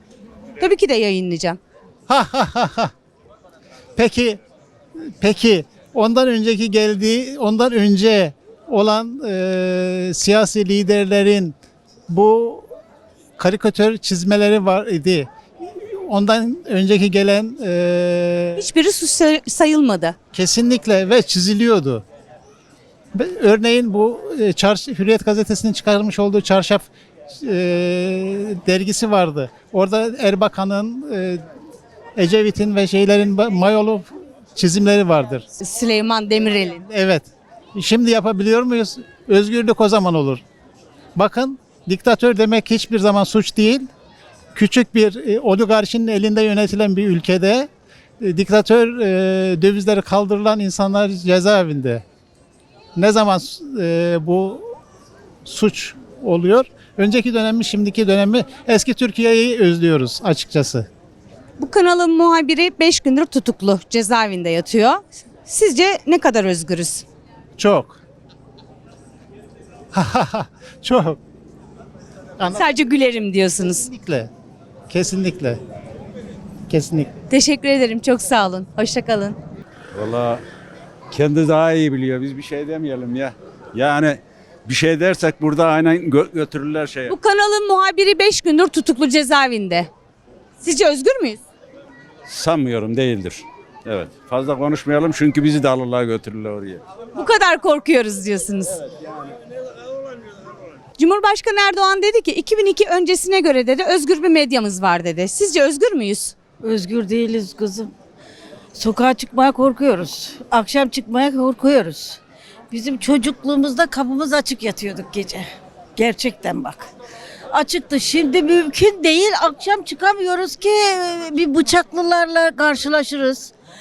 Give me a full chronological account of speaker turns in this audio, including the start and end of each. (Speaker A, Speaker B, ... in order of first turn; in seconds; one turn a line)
Speaker A: 0.6-1.6
Speaker B: 2.1-2.9
Speaker B: 4.0-4.4
Speaker B: 5.2-11.5
Speaker B: 12.1-12.7
Speaker B: 13.4-15.3
Speaker B: 16.0-18.6
Speaker A: 18.6-20.1
Speaker B: 20.3-22.0
Speaker B: 23.1-26.9
Speaker B: 27.4-31.4
Speaker B: 32.2-35.4
Speaker A: 35.6-36.8
Speaker B: 36.9-40.4
Speaker B: 41.1-43.9
Speaker B: 44.5-47.7
Speaker B: 48.2-52.0
Speaker B: 53.0-54.6
Speaker B: 55.4-60.9
Speaker A: 61.6-67.0
Speaker B: 67.6-68.0
Speaker B: 69.9-71.2
Speaker B: 72.4-72.7
Speaker A: 72.5-73.8
Speaker B: 73.6-74.3
Speaker B: 74.9-75.6
Speaker B: 76.7-77.1
Speaker A: 77.3-79.4
Speaker C: 79.9-80.4
Speaker C: 81.1-87.2
Speaker A: 87.1-89.9
Speaker A: 90.6-91.4
Speaker C: 92.3-96.8
Speaker A: 97.1-98.8
Speaker A: 101.0-106.3
Speaker D: 106.6-107.9
Speaker D: 108.7-112.2
Speaker D: 112.7-116.9
Speaker D: 117.5-123.5